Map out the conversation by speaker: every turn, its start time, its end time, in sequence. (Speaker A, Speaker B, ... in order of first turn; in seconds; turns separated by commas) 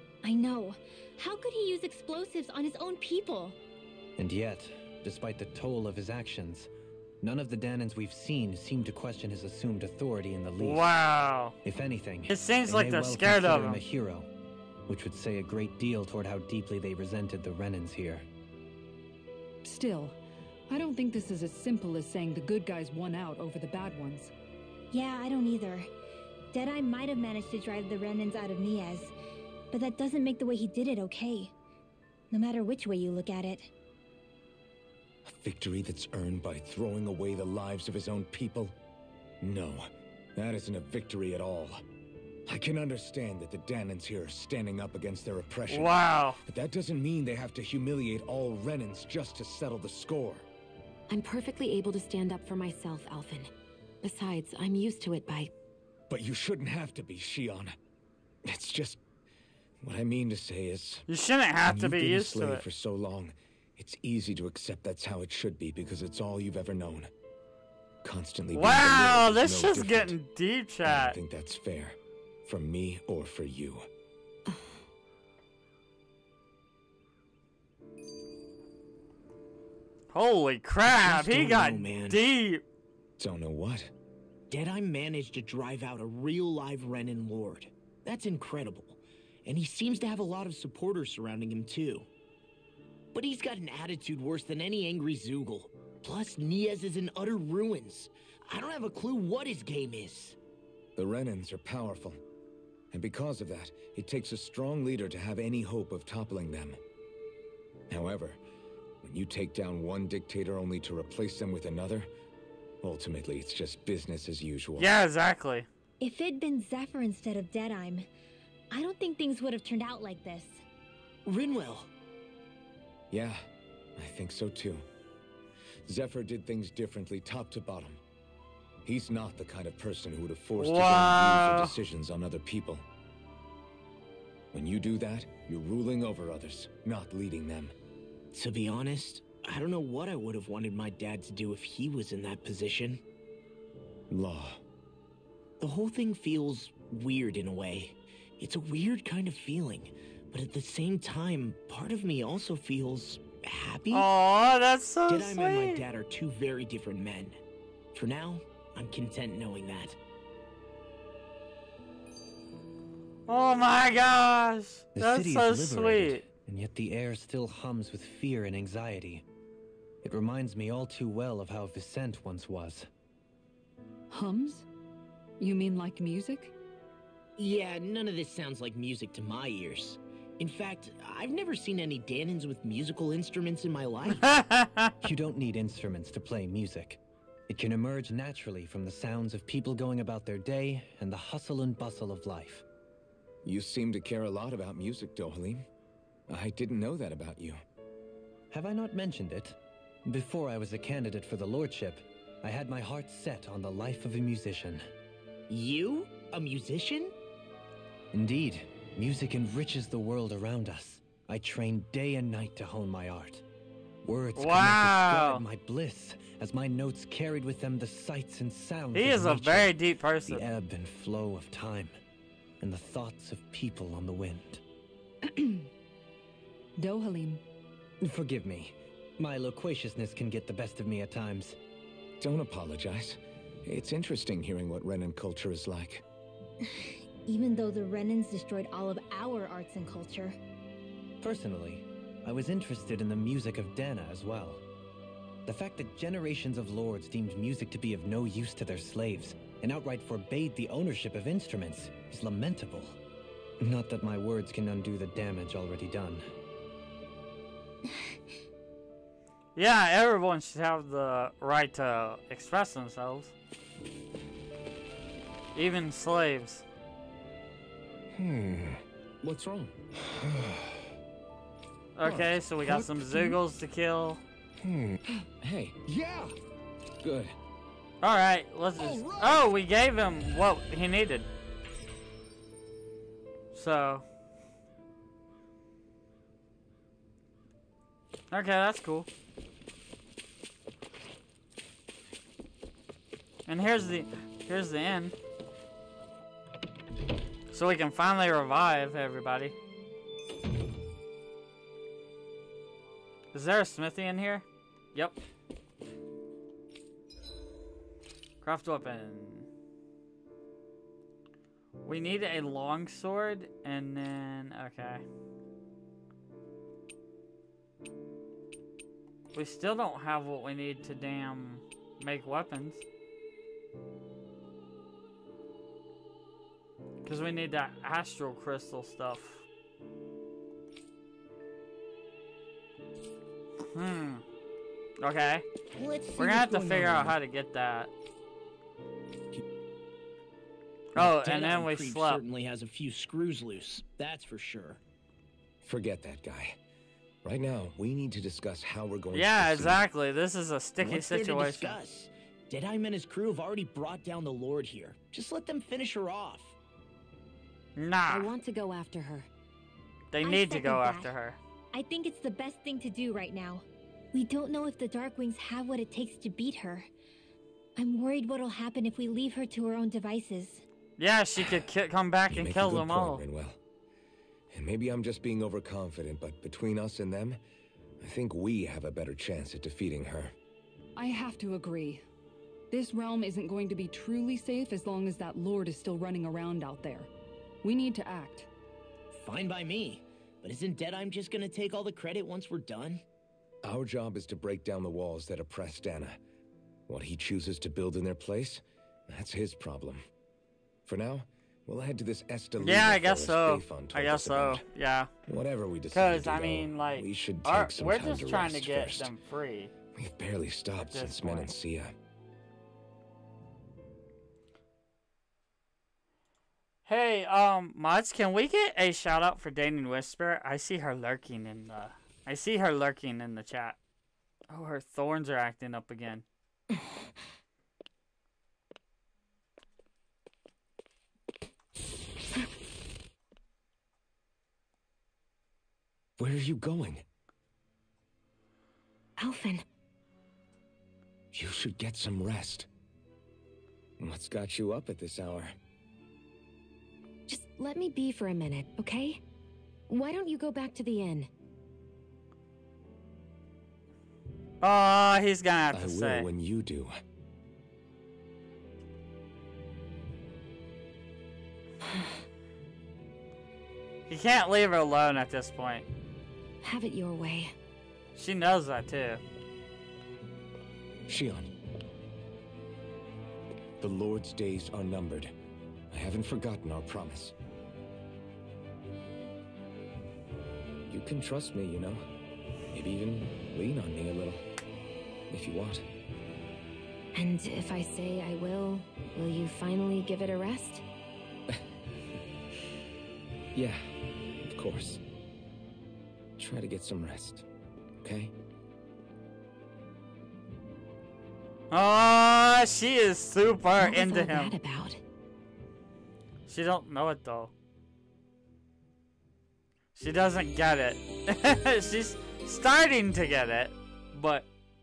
Speaker A: 0.2-3.5, Speaker B: 4.2-6.7, Speaker B: 7.2-10.9, Speaker C: 10.6-11.5, Speaker B: 11.6-14.3, Speaker C: 12.3-13.8, Speaker B: 14.9-18.2, Speaker D: 19.6-20.2, Speaker D: 20.7-24.3, Speaker A: 24.9-25.9, Speaker A: 26.5-29.1, Speaker A: 29.7-31.5, Speaker A: 32.3-33.7, Speaker E: 35.2-38.7, Speaker E: 39.4-41.8, Speaker E: 42.5-50.5, Speaker C: 45.7-46.4, Speaker F: 51.1-53.5, Speaker F: 54.0-55.5, Speaker E: 56.1-57.8, Speaker E: 58.4-59.0, Speaker E: 59.8-61.0, Speaker C: 61.1-62.6, Speaker E: 61.6-67.1, Speaker E: 68.0-70.2, Speaker C: 68.5-71.2, Speaker E: 70.8-73.9, Speaker F: 74.5-74.8, Speaker C: 80.1-82.6, Speaker G: 80.8-82.2, Speaker E: 83.2-83.9, Speaker G: 84.5-92.1, Speaker G: 93.1-100.4, Speaker E: 101.0-102.2, Speaker E: 102.9-106.8, Speaker E: 107.9-108.4, Speaker E: 109.0-112.1, Speaker E: 112.8-114.9, Speaker C: 114.8-115.7, Speaker A: 116.0-118.0, Speaker A: 118.7-120.6, Speaker G: 121.2-121.9, Speaker E: 123.1-123.4, Speaker E: 124.0-124.8, Speaker E: 125.8-128.0, Speaker E: 128.8-132.8, Speaker C: 130.6-131.7, Speaker E: 134.5-137.7, Speaker G: 138.3-143.0, Speaker E: 144.1-144.6, Speaker G: 145.6-154.1, Speaker C: 153.9-155.8, Speaker G: 155.1-157.4, Speaker G: 157.9-160.0, Speaker C: 163.3-166.2, Speaker B: 164.9-169.2, Speaker B: 170.0-172.9, Speaker D: 174.1-174.7, Speaker D: 175.4-176.5, Speaker G: 177.4-184.3, Speaker C: 184.2-184.9, Speaker B: 185.0-192.6, Speaker E: 193.4-195.7, Speaker E: 196.3-197.6, Speaker B: 198.5-204.8, Speaker G: 205.5-207.1, Speaker B: 208.1-213.4, Speaker B: 214.0-221.9, Speaker C: 214.3-215.4, Speaker C: 218.9-220.4, Speaker B: 222.6-224.6, Speaker D: 225.2-225.7, Speaker D: 226.8-227.4, Speaker B: 228.0-231.6, Speaker E: 232.2-236.0, Speaker A: 236.6-240.4, Speaker B: 241.2-244.6, Speaker B: 245.4-253.0, Speaker B: 253.6-256.2, Speaker C: 259.6-263.3, Speaker C: 265.5-266.6, Speaker E: 268.1-270.8, Speaker C: 271.9-274.2, Speaker E: 272.0-273.4, Speaker E: 274.6-276.3, Speaker E: 277.0-277.3, Speaker C: 278.0-281.3, Speaker E: 278.8-279.5, Speaker C: 283.5-284.0, Speaker C: 288.3-289.1, Speaker C: 293.5-295.1, Speaker C: 297.5-299.5, Speaker C: 303.3-305.1, Speaker C: 308.4-309.5, Speaker C: 311.8-315.0, Speaker C: 319.3-322.8, Speaker C: 327.0-329.4, Speaker C: 333.7-334.2, Speaker C: 335.0-335.4, Speaker G: 335.8-337.1, Speaker C: 336.2-337.9, Speaker C: 340.9-342.2, Speaker G: 340.9-344.8, Speaker E: 345.6-346.6, Speaker E: 347.2-349.8, Speaker C: 349.1-351.8, Speaker G: 350.8-356.5, Speaker C: 357.8-358.3, Speaker F: 358.1-359.3, Speaker C: 360.1-361.4, Speaker A: 360.2-361.1, Speaker A: 361.7-366.9, Speaker A: 367.8-370.6, Speaker C: 371.0-373.2, Speaker E: 371.4-371.7, Speaker E: 372.3-373.6, Speaker E: 374.5-377.4, Speaker E: 378.0-380.3, Speaker D: 380.9-382.0, Speaker D: 382.7-387.1, Speaker D: 387.6-388.5, Speaker G: 389.1-393.0, Speaker E: 393.6-396.2, Speaker E: 396.9-400.0, Speaker E: 400.9-404.6, Speaker C: 402.6-405.1, Speaker E: 405.2-409.1, Speaker C: 405.9-409.7, Speaker E: 409.9-411.9, Speaker C: 410.8-411.5, Speaker C: 416.9-423.8, Speaker C: 424.5-426.2, Speaker E: 436.2-437.0, Speaker F: 439.2-439.6, Speaker E: 441.3-442.7, Speaker E: 444.0-445.5, Speaker F: 447.3-449.2, Speaker F: 449.9-451.3, Speaker C: 454.6-456.3, Speaker E: 455.7-456.9, Speaker C: 464.1-465.9, Speaker F: 466.6-467.5, Speaker C: 468.1-469.2, Speaker E: 471.1-471.5, Speaker E: 473.8-475.3, Speaker E: 475.9-477.3, Speaker E: 480.9-482.0, Speaker E: 482.7-484.4, Speaker E: 485.3-485.8, Speaker F: 487.1-490.8, Speaker E: 493.5-495.0, Speaker E: 496.4-497.4, Speaker E: 498.0-498.3, Speaker C: 501.7-504.5, Speaker F: 503.8-505.0, Speaker C: 506.5-507.5, Speaker C: 509.9-514.5